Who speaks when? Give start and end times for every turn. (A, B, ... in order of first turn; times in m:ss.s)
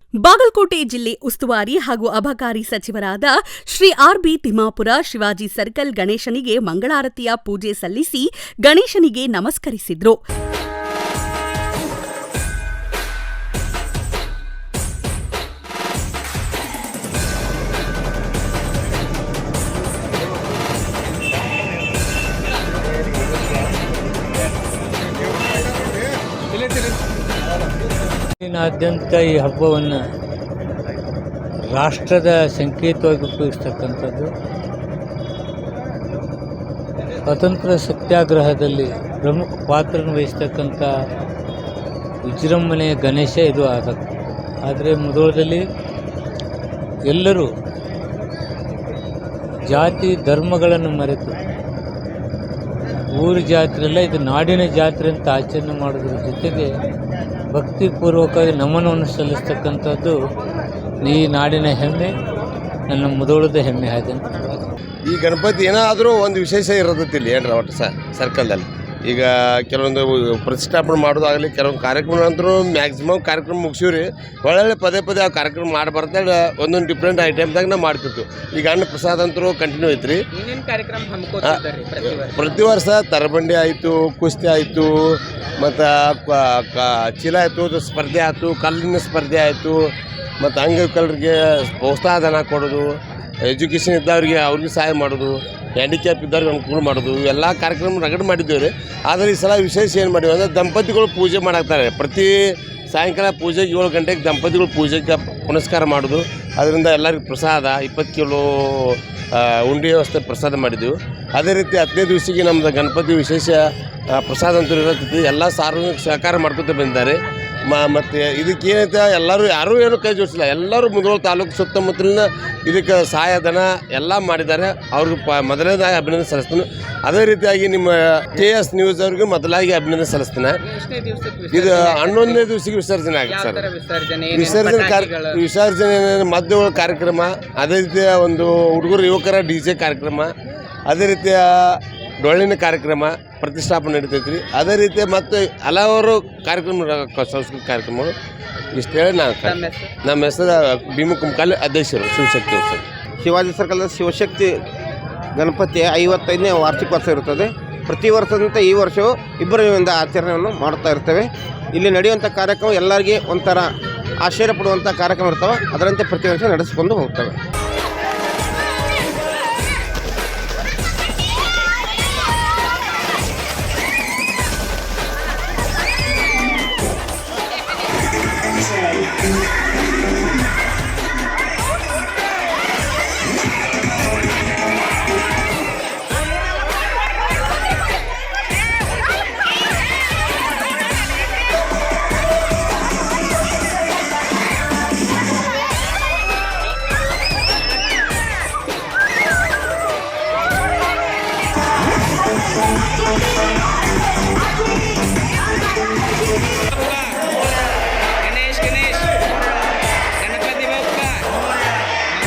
0:00.2-0:10.2 A
0:28.4-0:30.0 B
0:31.7-0:34.3 B
0:37.3-0:40.9 B
0:42.2-0:44.0 B
0:44.6-0:45.7 B
0:47.0-0:47.5 B
0:49.7-0:51.4 B
0:53.2-0:56.7 B
0:57.5-1:00.2 B
1:01.0-1:02.2 B
1:02.9-1:04.2 B
1:05.1-1:20.2 C
1:20.3-1:22.6 D
1:22.2-1:32.9 C
1:33.5-1:53.6 C
1:54.1-1:57.2 C
1:57.7-2:10.6 C
2:10.6-2:12.5 D
2:11.5-2:13.7 C
2:13.3-2:15.4 D
2:14.3-2:20.3 C
2:20.9-2:28.1 C
2:28.8-2:32.8 C
2:29.4-2:29.9 D
2:33.2-2:34.5 E
2:35.4-2:43.7 E
2:44.2-2:47.4 E
3:28.3-3:28.9 D
3:30.3-3:31.0 D